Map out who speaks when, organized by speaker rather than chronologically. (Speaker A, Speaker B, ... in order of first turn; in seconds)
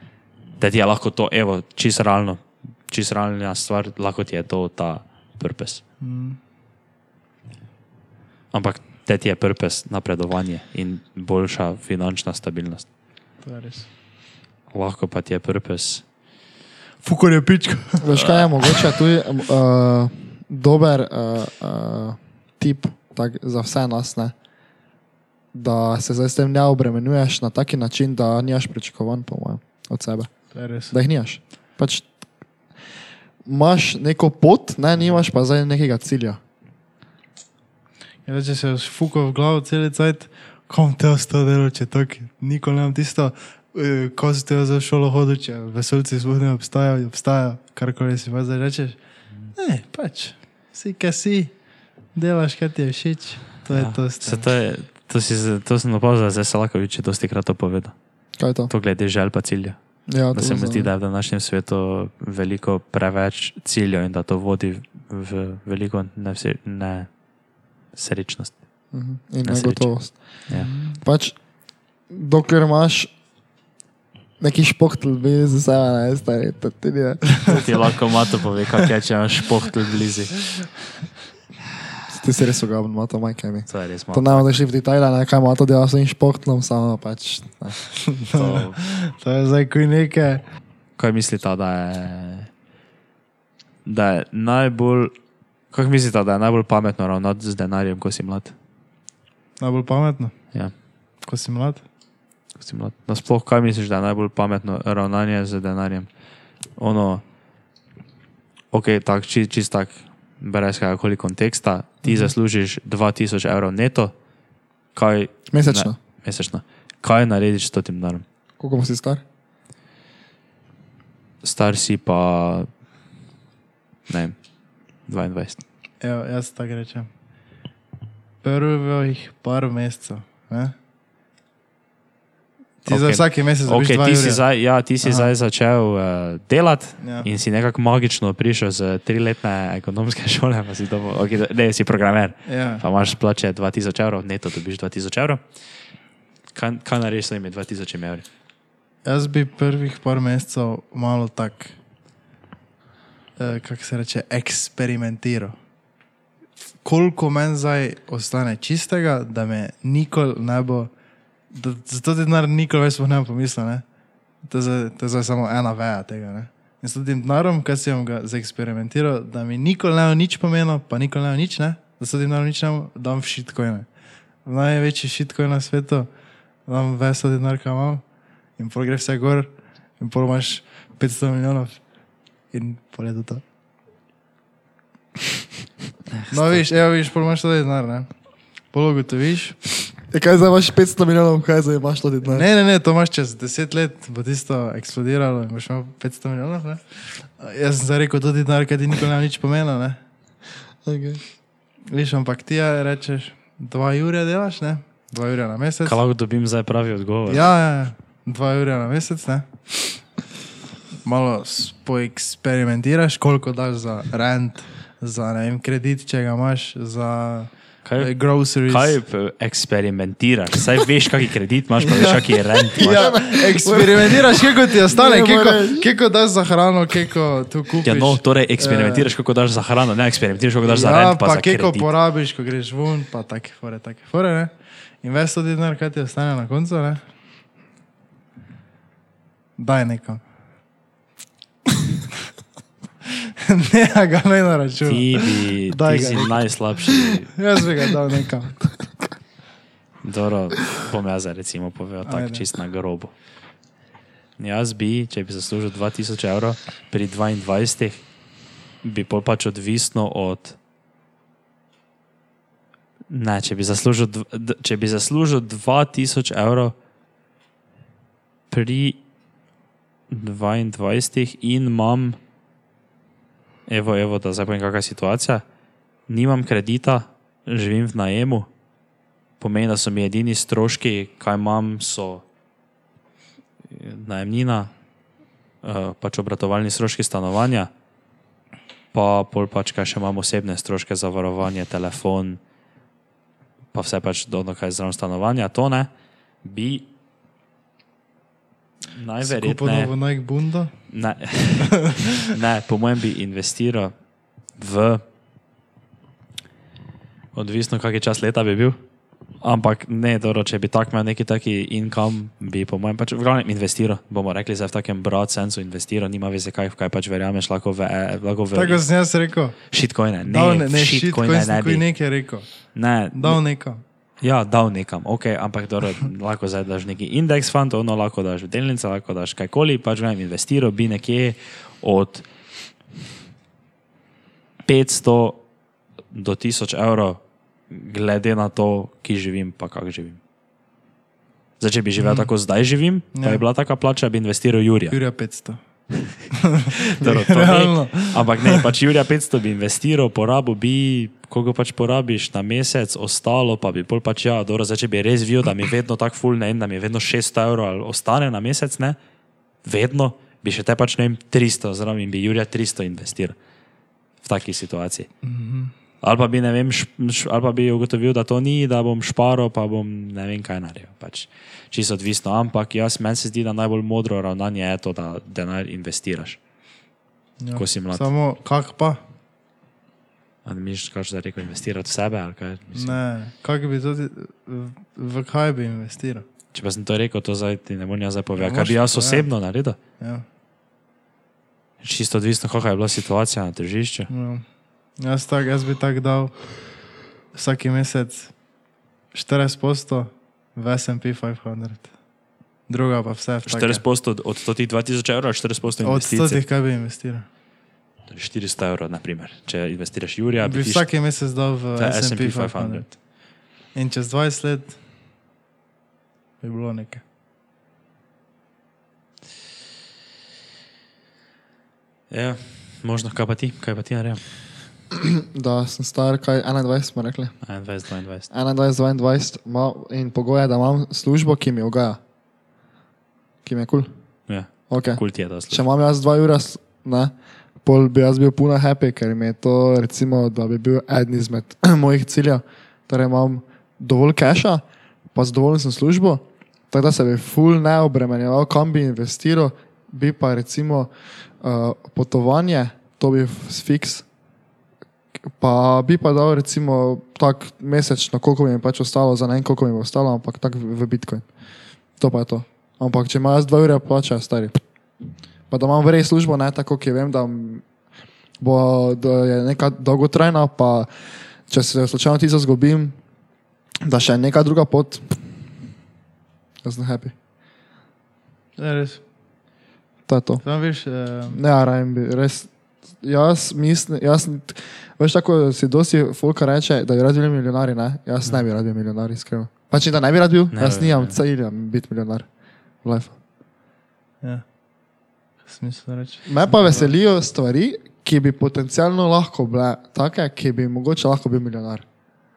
Speaker A: 0.6-5.8, 8.5-12.9, 14.7-16.0, 18.1-18.5, 53.7-58.0, 58.7-59.8, 60.3-67.1, 67.9-68.6, 69.4-70.7, 77.5-80.3, 83.7-84.6, 88.3-88.8, 91.0-92.5, 93.9-95.1, 95.7-98.5, 102.6-106.1, 106.8-107.2, 108.7-114.1, 114.9-118.2, 121.4-122.7, 124.1-124.4, 125.1-125.6, 132.9-145.4, 146.5-148.3, 186.2-186.6, 205.8-207.5, 217.8-223.1, 227.8-231.9, 244.8-247.3, 250.0-253.1, 254.4-258.0, 258.8-260.6, 263.1-266.7, 268.5-269.0, 270.1-272.2, 273.7-275.4, 276.1-278.5, 279.4-282.2, 283.7-284.7, 285.6-287.7, 288.9-292.4, 293.7-295.9, 296.4-296.9, 298.9-299.9, 300.9-304.0, 304.6-305.0, 307.3-308.8, 309.4-318.8, 319.7-321.9, 322.7-323.4, 324.2-332.3, 334.7-335.4, 336.1-340.2, 341.6-345.0, 346.9-359.0, 359.6-363.4, 364.2-365.1, 366.0-376.4, 377.6-378.1, 380.4-383.0, 386.5-389.8, 391.8-394.1, 403.5-406.4, 408.1-410.9, 411.7-412.9, 422.1-424.2, 427.4-428.3, 434.3-435.6, 490.5-491.2
Speaker B: 6.0-6.4, 13.4-13.9, 17.0-18.9, 30.5-30.9, 38.3-49.0, 49.5-51.6, 52.1-54.5, 70.5-71.0, 88.1-90.4, 99.6-100.5, 101.2-101.8, 126.0-127.1, 128.4-130.7, 132.8-134.4, 135.0-135.3, 137.0-137.3, 142.5-142.8, 149.0-151.8, 153.4-155.6, 156.8-160.9, 161.5-163.8, 164.4-173.9, 174.4-176.1, 176.7-178.0, 178.6-181.8, 182.5-183.4, 186.3-188.2, 188.7-189.9, 192.2-200.0, 201.9-206.0, 207.3-210.0, 211.0-219.0, 221.9-229.1, 230.6-237.0, 239.6-240.2, 243.4-248.6, 252.1-252.5, 299.2-300.9, 318.6-319.6, 320.2-323.8, 342.0-342.3, 343.1-343.4, 344.9-348.6, 365.2-365.7, 377.4-379.0, 382.7-386.2, 388.4-389.3, 390.0-390.2, 394.1-394.4, 395.0-396.8, 397.3-398.4, 399.1-401.9, 402.7-403.8, 405.8-407.3, 410.4-413.0, 413.8-414.8, 416.4-417.0, 478.6-479.0, 480.4-481.4, 495.4-496.9
Speaker C: 18.0-24.3, 25.5-32.1, 33.5-36.4, 58.4-58.7, 60.1-60.9, 68.9-71.5, 72.0-73.1, 74.4-77.6, 82.1-87.8, 115.5-116.0, 118.6-119.2, 190.1-192.5, 200.8-201.2, 222.8-225.9, 424.9-427.4, 428.3-432.0, 433.4-433.9, 434.7-454.1, 455.4-461.3, 462.0-464.6, 465.5-467.6, 468.4-470.9, 471.5-473.0, 473.9-475.2, 476.6-477.1, 480.1-480.4, 481.3-492.3, 492.8-493.2, 496.3-501.9